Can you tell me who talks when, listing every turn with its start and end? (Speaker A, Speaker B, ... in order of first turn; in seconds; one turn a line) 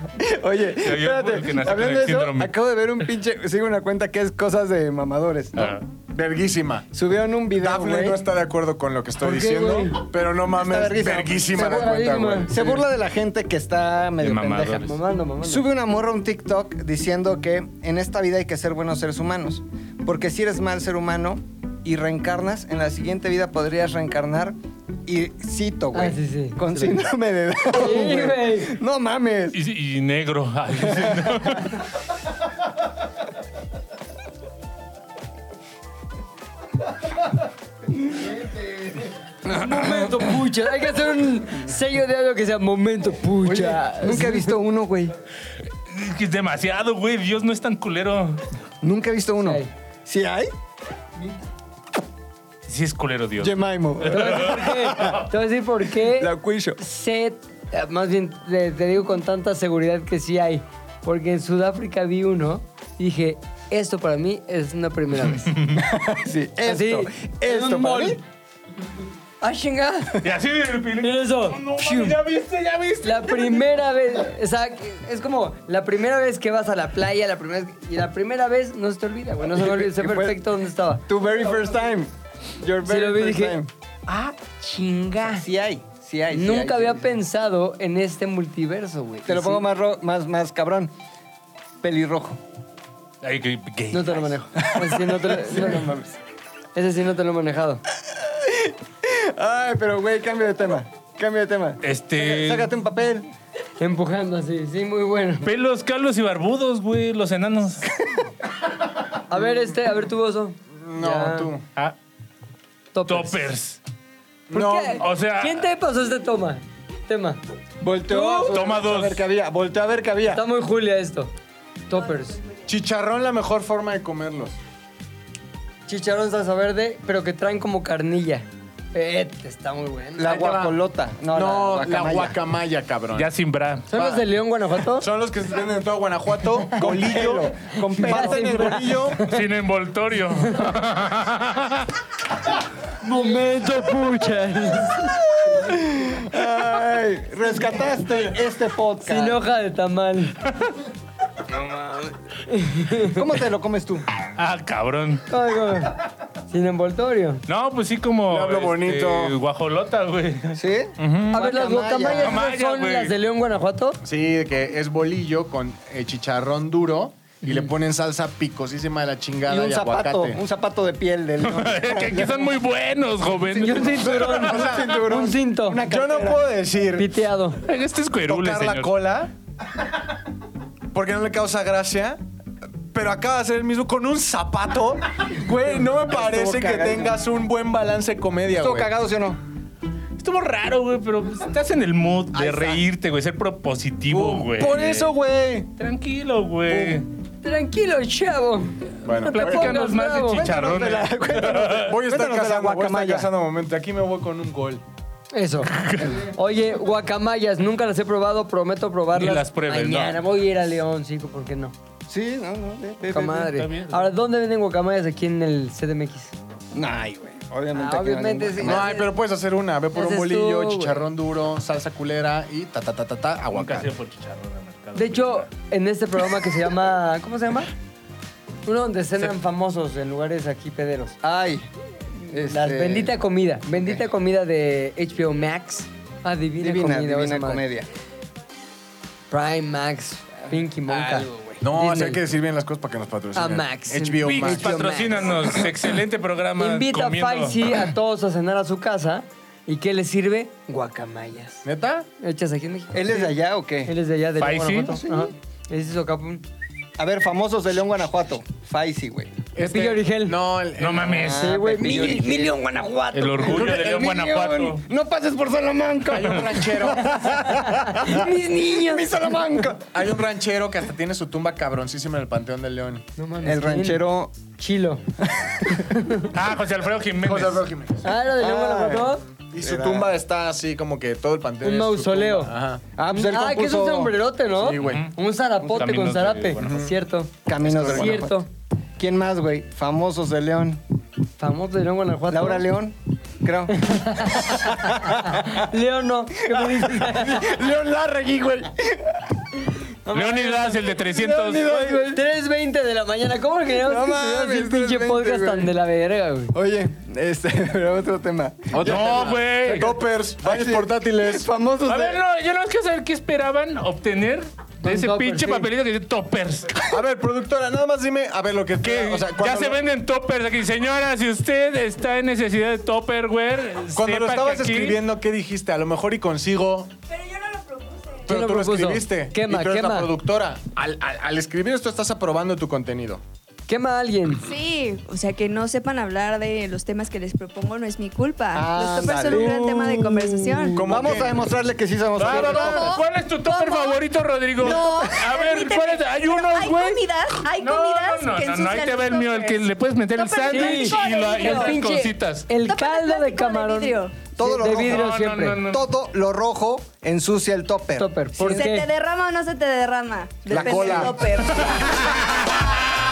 Speaker A: 0.2-5.8
Speaker B: 0.8-2.5
Speaker B: 5.5-5.8
Speaker C: 6.1-6.9
Speaker A: 6.9-8.2
Speaker C: 7.5-12.8
Speaker D: 9.2-10.0
Speaker A: 10.5-24.5
Speaker D: 11.5-12.7
Speaker B: 14.2-14.9
Speaker D: 14.8-15.7
Speaker A: 25.1-29.6
Speaker D: 25.9-26.9
Speaker D: 27.7-28.8
Speaker B: 29.5-31.8
Speaker A: 30.9-31.6
Speaker D: 38.9-44.5
Speaker A: 39.4-40.4
Speaker A: 43.4-45.1
Speaker B: 45.7-48.4
Speaker A: 48.8-50.5
Speaker D: 49.4-49.7
Speaker B: 52.6-55.1
Speaker A: 53.4-55.2
Speaker D: 54.1-65.6
Speaker A: 56.1-56.8
Speaker A: 65.7-68.2
Speaker D: 66.6-68.2
Speaker D: 69.4-70.3
Speaker B: 70.2-73.7
Speaker D: 71.0-72.2
Speaker D: 73.0-81.0
Speaker A: 79.5-80.4
Speaker A: 81.1-83.7
Speaker D: 82.8-85.4
Speaker A: 85.3-87.2
Speaker D: 86.3-89.6
Speaker A: 89.2-90.9
Speaker A: 91.8-92.4
Speaker B: 93.2-94.3
Speaker D: 93.9-95.9
Speaker A: 94.5-96.2
Speaker D: 96.7-97.8
Speaker A: 98.2-103.3
Speaker B: 101.8-102.7
Speaker D: 103.8-105.5
Speaker B: 105.4-107.9
Speaker A: 107.9-108.3
Speaker D: 109.3-111.5
Speaker C: 110.8-111.6
Speaker D: 112.9-113.5
Speaker B: 113.1-113.8
Speaker C: 114.5-115.0
Speaker D: 114.5-117.4
Speaker B: 115.0-115.7
Speaker A: 117.8-120.4
Speaker D: 118.1-118.6
Speaker B: 118.5-119.2
Speaker D: 120.3-121.3
Speaker D: 121.9-122.4
Speaker C: 122.7-124.6
Speaker D: 125.9-130.6
Speaker A: 130.2-132.4
Speaker C: 130.3-130.7
Speaker C: 131.3-133.3
Speaker B: 133.1-133.9
Speaker D: 133.9-135.1
Speaker C: 133.9-134.2
Speaker C: 134.9-139.2
Speaker A: 136.8-139.1
Speaker D: 138.0-139.2
Speaker B: 139.2-141.9
Speaker D: 140.4-140.7
Speaker D: 143.0-145.2
Speaker A: 145.4-149.4
Speaker D: 149.1-150.4
Speaker D: 152.5-153.2
Speaker A: 153.1-154.0
Speaker B: 154.4-155.2
Speaker D: 155.3-155.9
Speaker D: 156.5-157.4
Speaker B: 157.5-161.4
Speaker C: 158.3-159.3
Speaker A: 160.5-162.4
Speaker D: 161.3-164.0
Speaker B: 162.1-163.1
Speaker C: 164.0-170.4
Speaker A: 169.5-172.5
Speaker B: 171.4-174.5
Speaker D: 173.5-175.8
Speaker A: 173.9-176.5
Speaker C: 174.1-174.9
Speaker C: 175.8-177.1
Speaker D: 176.9-177.6
Speaker B: 177.7-178.9
Speaker C: 178.2-179.3
Speaker C: 180.9-182.2
Speaker C: 182.9-188.9
Speaker A: 185.9-187.2
Speaker A: 188.5-189.4
Speaker B: 190.2-195.1
Speaker A: 192.3-192.8
Speaker A: 194.2-194.5
Speaker C: 194.2-195.7
Speaker B: 195.8-197.1
Speaker D: 197.4-200.5
Speaker C: 199.0-199.8
Speaker B: 199.3-201.9
Speaker A: 200.2-203.3
Speaker C: 201.8-204.8
Speaker D: 205.3-211.7
Speaker B: 205.8-206.2
Speaker B: 209.1-210.2
Speaker A: 212.1-213.6
Speaker D: 213.1-216.3
Speaker B: 213.5-214.1
Speaker A: 216.7-218.9
Speaker D: 217.7-219.1
Speaker C: 218.6-223.9
Speaker D: 219.9-221.0
Speaker B: 223.5-225.5
Speaker D: 224.9-227.7
Speaker D: 228.6-231.2
Speaker A: 231.2-231.7
Speaker D: 232.2-237.6
Speaker A: 232.3-233.1
Speaker A: 236.6-237.9
Speaker D: 239.3-242.2
Speaker A: 240.9-241.6
Speaker C: 241.6-244.8
Speaker D: 243.3-245.7
Speaker B: 244.2-247.8
Speaker D: 246.6-251.6
Speaker C: 251.6-252.1
Speaker D: 252.2-253.3
Speaker A: 252.9-253.9
Speaker D: 253.8-256.4
Speaker B: 254.4-255.0
Speaker A: 254.9-255.3
Speaker A: 257.0-259.4
Speaker C: 259.6-261.5
Speaker D: 259.6-260.4
Speaker B: 260.8-261.6
Speaker A: 261.1-262.6
Speaker D: 261.4-263.7
Speaker B: 263.1-264.8
Speaker C: 263.4-264.3
Speaker A: 263.4-269.9
Speaker C: 266.1-267.4
Speaker D: 267.5-269.4
Speaker C: 269.9-273.0
Speaker D: 273.2-274.0
Speaker A: 273.4-274.3
Speaker D: 274.6-275.0
Speaker A: 275.2-275.9
Speaker D: 275.7-276.3
Speaker B: 276.3-277.6
Speaker C: 277.2-278.0
Speaker D: 278.0-279.2
Speaker A: 278.4-280.1
Speaker C: 279.5-282.8
Speaker D: 281.6-282.5
Speaker A: 282.9-284.1
Speaker D: 283.1-287.3
Speaker C: 284.6-285.1
Speaker B: 284.7-286.9
Speaker C: 286.6-286.9
Speaker A: 287.4-288.4
Speaker C: 287.6-288.2
Speaker D: 287.9-288.5
Speaker A: 289.0-290.8
Speaker D: 291.4-292.7
Speaker A: 292.3-295.6
Speaker D: 293.7-297.6
Speaker A: 296.5-302.2
Speaker B: 300.1-301.8
Speaker D: 302.0-306.5
Speaker A: 303.7-305.7
Speaker A: 306.5-312.2
Speaker C: 308.7-311.5
Speaker B: 308.8-310.0
Speaker B: 311.9-316.8
Speaker D: 314.8-315.7
Speaker C: 316.9-319.8
Speaker B: 318.8-325.0
Speaker C: 323.9-326.9
Speaker E: 327.1-328.3
Speaker C: 328.2-333.2
Speaker D: 328.3-330.1
Speaker D: 333.7-334.4
Speaker E: 334.4-341.1
Speaker A: 338.5-339.6
Speaker D: 339.1-340.8
Speaker C: 340.8-341.4
Speaker A: 340.8-343.0
Speaker B: 342.2-352.5
Speaker E: 342.2-344.0
Speaker E: 344.6-351.8
Speaker D: 350.4-355.6
Speaker E: 352.6-354.2
Speaker A: 354.3-358.6
Speaker B: 354.6-355.9
Speaker D: 358.0-358.9
Speaker E: 358.4-362.1
Speaker C: 360.5-361.2
Speaker A: 360.6-361.0